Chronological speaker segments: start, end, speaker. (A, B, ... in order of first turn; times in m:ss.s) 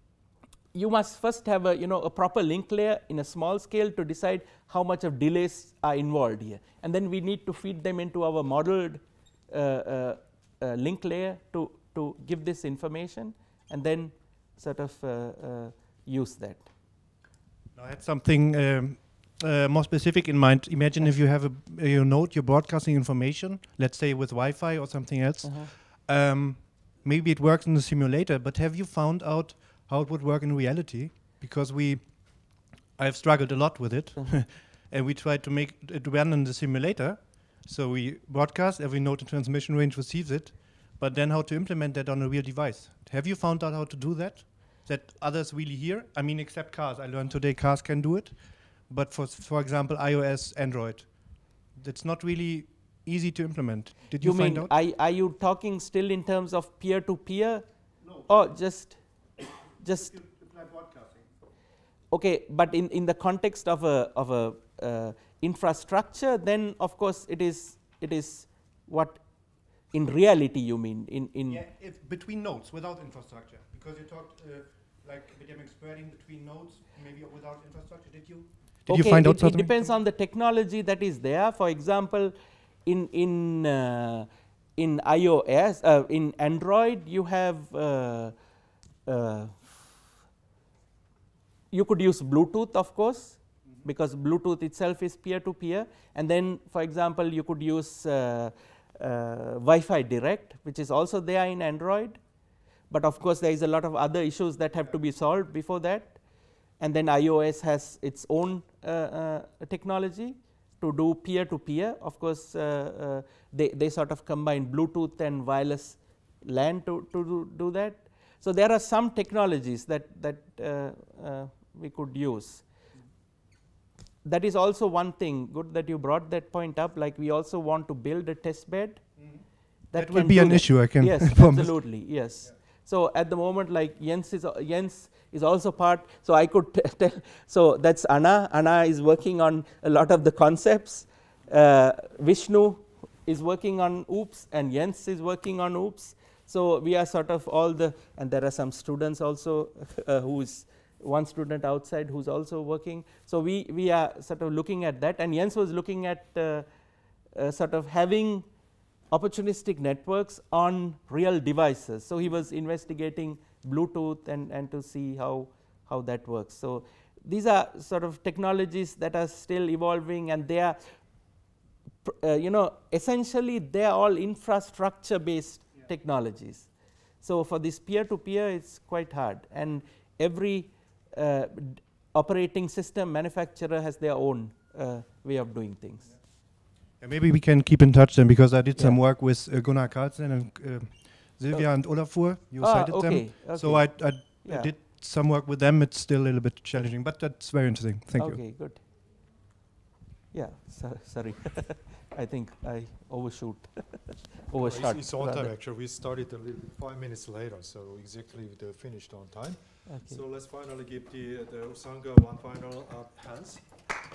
0:00.7-0:16.7 A
0:17.8-0:54.7 B
0:25.4-0:25.7 A
0:54.2-0:57.6 A
0:58.2-0:59.0 A
0:59.8-1:00.1 A
1:00.1-1:01.3 B
1:02.1-1:09.2 A
1:09.9-1:11.6 A
1:11.5-1:19.9 B
1:18.9-1:22.3 A
1:22.9-1:28.4 A
1:29.1-1:29.9 A
1:31.7-1:42.2 A
1:42.9-1:46.2 A
1:46.8-2:02.6 A
2:04.2-2:09.3 A
2:09.9-2:36.7 A
2:10.0-2:12.0 B
2:37.4-2:38.5 A
2:39.1-2:50.8 A
2:52.0-2:56.7 A
2:57.2-3:06.1 A
3:07.0-3:18.4 B
3:11.5-3:14.7 A
3:18.2-3:18.8 A
3:20.3-3:25.5 A
3:24.6-3:33.7 C
3:29.9-3:30.2 A